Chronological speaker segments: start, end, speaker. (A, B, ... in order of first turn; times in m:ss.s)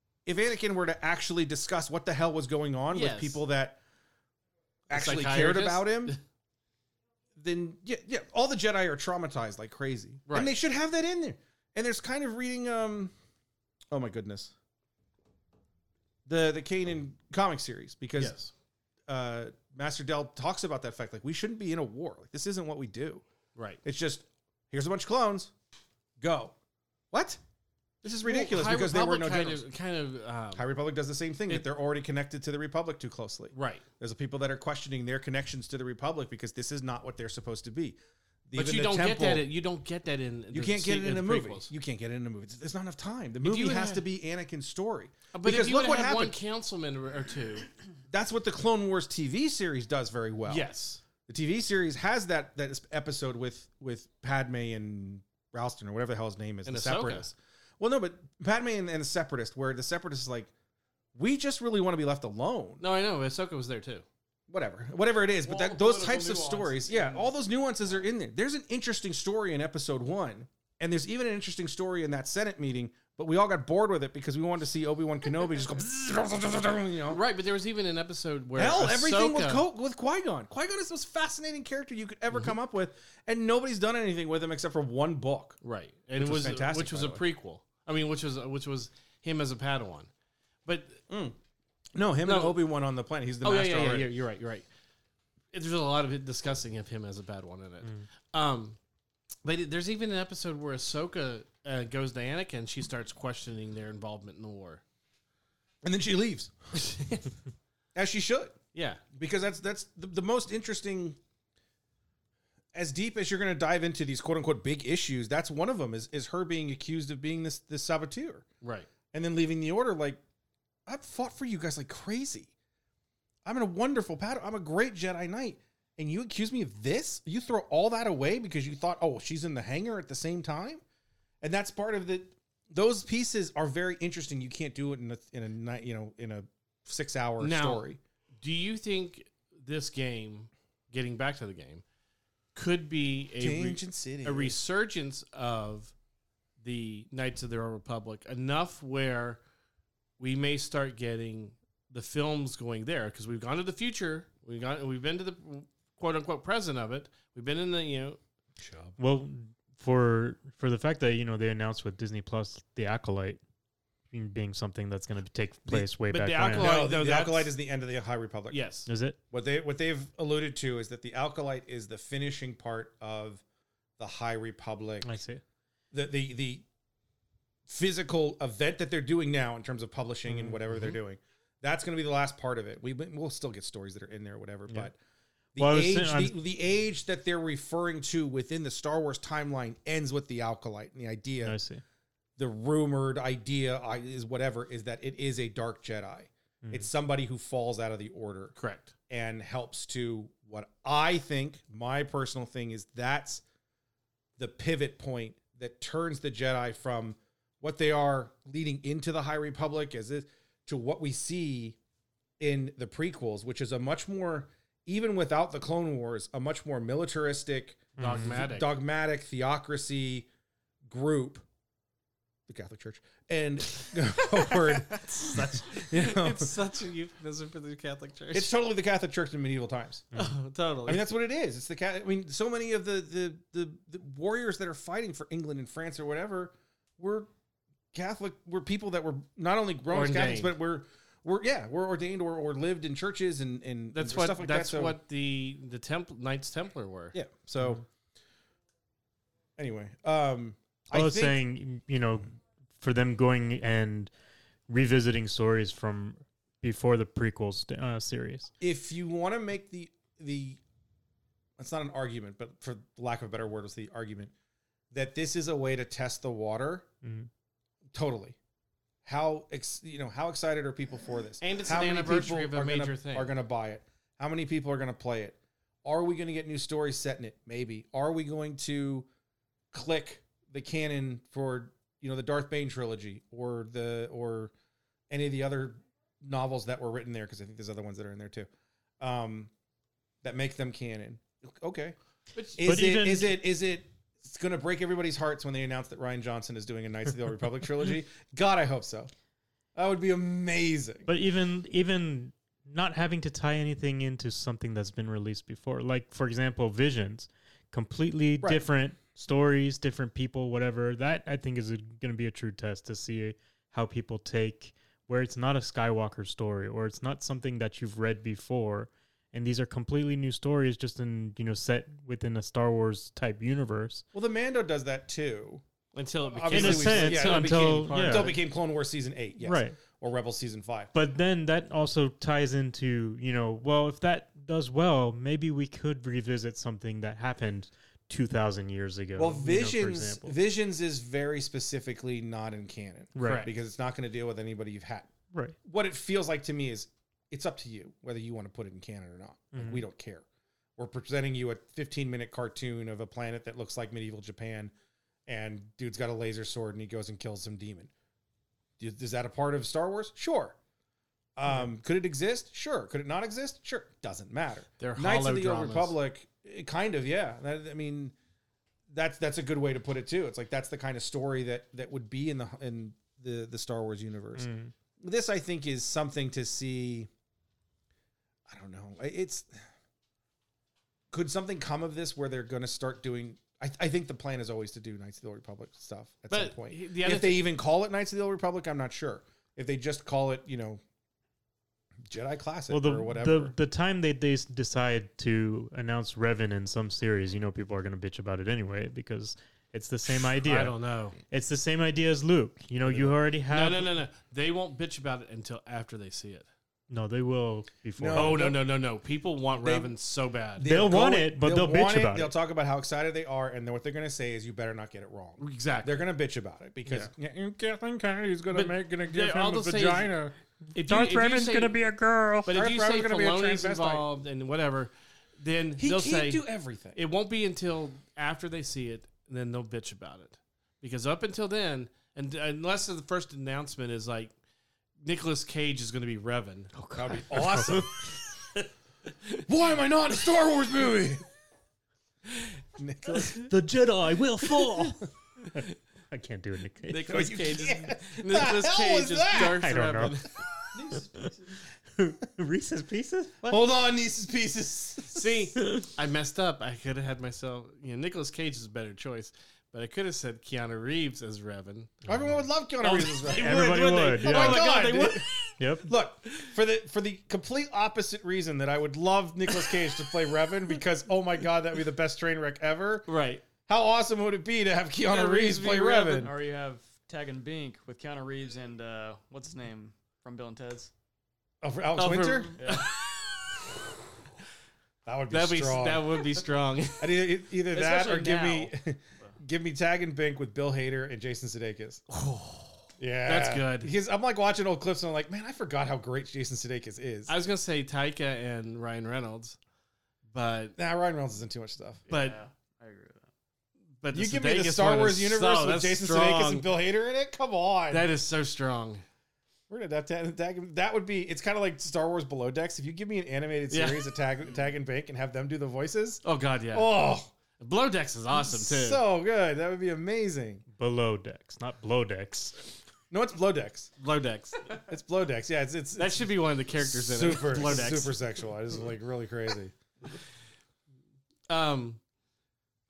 0:00.2-0:03.8 A
0:02.9-0:03.4 B
0:04.9-0:06.2 A
0:04.9-0:06.2 B
0:07.4-0:13.1 A
0:10.3-0:10.5 B
0:13.9-0:14.5 A
0:16.2-0:18.4 A
0:18.2-0:18.5 B
0:19.1-0:23.2 A
0:23.8-0:25.5 A
0:26.2-0:26.5 A
0:27.1-0:27.4 A
0:28.0-0:29.6 A
0:28.2-0:30.6 B
0:30.5-0:39.5 A
0:33.5-0:33.8 B
0:38.5-0:41.7 B
0:40.5-0:46.4 A
0:43.4-0:44.0 B
0:45.3-0:47.7 B
0:48.1-0:50.7 A
0:50.5-0:51.0 B
0:51.3-1:00.5 A
0:56.6-0:57.3 B
1:01.1-1:02.8 A
1:02.8-1:04.0 B
1:04.5-1:17.2 A
1:05.4-1:07.3 C
1:17.1-1:19.6 B
1:18.6-1:25.6 A
1:25.6-1:30.1 B
1:26.2-1:27.2 A
1:30.6-1:31.0 B
1:31.1-1:31.4 A
1:31.9-1:34.1 A
1:32.2-1:32.6 B
1:33.4-1:34.7 B
1:35.5-1:38.8 B
1:39.4-1:44.8 B
1:45.8-1:46.9 A
1:46.8-1:47.2 B
1:47.9-1:48.6 A
1:48.7-1:49.0 B
1:49.1-1:51.2 A
1:52.7-1:58.4 A
1:58.6-1:58.9 B
1:59.1-2:00.2 A
2:00.9-2:02.5 A
2:03.4-2:10.8 A
2:11.4-2:18.0 A
2:17.4-2:17.8 B
2:18.4-2:21.8 B
2:22.5-2:25.9 B
2:23.4-2:24.6 A
2:26.6-2:29.4 B
2:30.2-2:38.2 B
2:38.6-2:39.0 A
2:39.0-2:43.4 D
2:44.1-2:46.8 D
2:46.1-2:47.5 B
2:46.5-2:48.6 A
2:48.5-2:48.9 B
2:48.9-2:49.2 D
2:49.3-2:53.4 A
2:54.0-2:55.2 A
2:55.0-2:55.4 D
2:55.9-2:56.6 A
2:57.7-3:05.0 A
3:00.3-3:01.0 D
3:05.5-3:11.6 A
3:05.6-3:06.3 D
3:11.4-3:11.8 D
3:12.4-3:18.5 A
3:18.6-3:18.9 B
3:19.1-3:23.4 A
3:24.4-3:31.8 A
3:32.4-3:40.3 A
3:38.0-3:38.7 B
3:38.0-3:38.4 D
3:40.8-3:41.4 A
3:42.5-3:46.5 A
3:44.9-3:48.5 B
3:48.3-3:50.1 A
3:50.1-3:51.1 B
3:50.8-3:57.3 A
3:57.9-4:05.0 A
3:59.9-4:00.5 B
4:03.9-4:07.2 B
4:07.1-4:07.8 A
4:09.6-4:11.4 A
4:10.9-4:14.1 D
4:14.7-4:18.5 D
4:18.6-4:20.6 A
4:21.6-4:24.3 A
4:24.9-4:26.9 A
4:27.0-4:27.3 D
4:27.9-4:28.4 A
4:29.0-4:39.1 A
4:31.4-4:33.3 B
4:39.7-4:44.5 A
4:45.1-4:48.5 A
4:49.0-4:49.5 A
4:50.2-4:52.0 A
4:52.3-4:52.6 B
4:52.5-4:59.1 A
4:52.6-4:53.4 D
4:59.7-5:01.1 A
5:01.1-5:24.0 D
5:24.1-5:25.6 A
5:25.9-5:28.4 B
5:26.2-5:30.9 A
5:26.5-5:28.3 D
5:29.4-5:29.8 D
5:30.9-5:40.4 D
5:39.2-5:45.1 A
5:43.2-5:43.5 D
5:43.2-5:43.5 B
5:45.6-5:50.2 A
5:49.5-5:49.8 D
5:50.8-5:54.7 A
5:55.3-5:57.9 A
5:58.8-6:00.6 A
6:01.4-6:08.1 A
6:04.8-6:06.0 B
6:08.9-6:17.1 A
6:14.4-6:14.7 D
6:18.5-6:19.7 A
6:21.1-6:30.8 A
6:26.3-6:27.4 B
6:32.1-6:33.5 A
6:32.7-6:40.8 D
6:40.1-6:41.2 B
6:41.3-6:43.9 D
6:43.5-6:46.5 B
6:46.9-6:48.5 D
6:48.0-6:48.6 A
6:48.1-6:50.7 B
6:49.6-6:49.9 A
6:50.6-7:00.3 A
6:50.6-6:52.3 D
6:55.4-6:56.0 B
6:58.5-7:00.2 B
7:00.7-7:01.8 B
7:00.8-7:02.5 D
7:02.4-7:04.0 A
7:02.4-7:14.3 B
7:05.8-7:07.0 A
7:15.0-7:16.7 B
7:16.7-7:18.3 D
7:16.9-7:17.9 A
7:19.4-7:21.2 A
7:22.7-7:23.5 A
7:23.3-7:27.3 D
7:24.4-7:25.1 A
7:26.9-7:30.3 B
7:27.0-7:29.7 A
7:29.4-7:30.3 D
7:30.7-7:31.6 C
7:32.0-7:33.6 D
7:33.4-7:35.4 A
7:35.1-7:42.0 B
7:42.0-7:45.3 A
7:42.8-7:43.6 B
7:42.8-7:44.7 D
7:44.2-7:45.5 B
7:44.5-7:44.9 C
7:45.6-7:45.9 D
7:45.8-7:53.1 A
7:53.1-7:53.4 B
7:53.6-7:56.4 A
7:55.1-8:00.9 C
8:01.6-8:02.6 A
8:02.0-8:03.5 B
8:02.5-8:02.9 C
8:05.0-8:06.3 A
8:05.3-8:07.2 B
8:07.0-8:12.0 A
8:07.7-8:09.3 C
8:12.1-8:13.9 B
8:13.0-8:17.3 A
8:17.3-8:19.6 B
8:20.3-8:20.8 B
8:20.8-8:22.0 A
8:22.1-8:23.2 C
8:22.1-8:22.4 B
8:24.0-8:26.7 B
8:24.1-8:28.1 A
8:27.9-8:29.0 B
8:29.7-8:37.3 A
8:33.7-8:34.1 B
8:36.2-8:36.9 B
8:37.6-8:39.0 B
8:38.3-8:40.6 A
8:40.8-8:42.7 D
8:43.1-8:43.9 A
8:44.0-8:44.8 B
8:44.8-8:49.7 A
8:46.0-8:48.2 B
8:51.5-8:52.0 B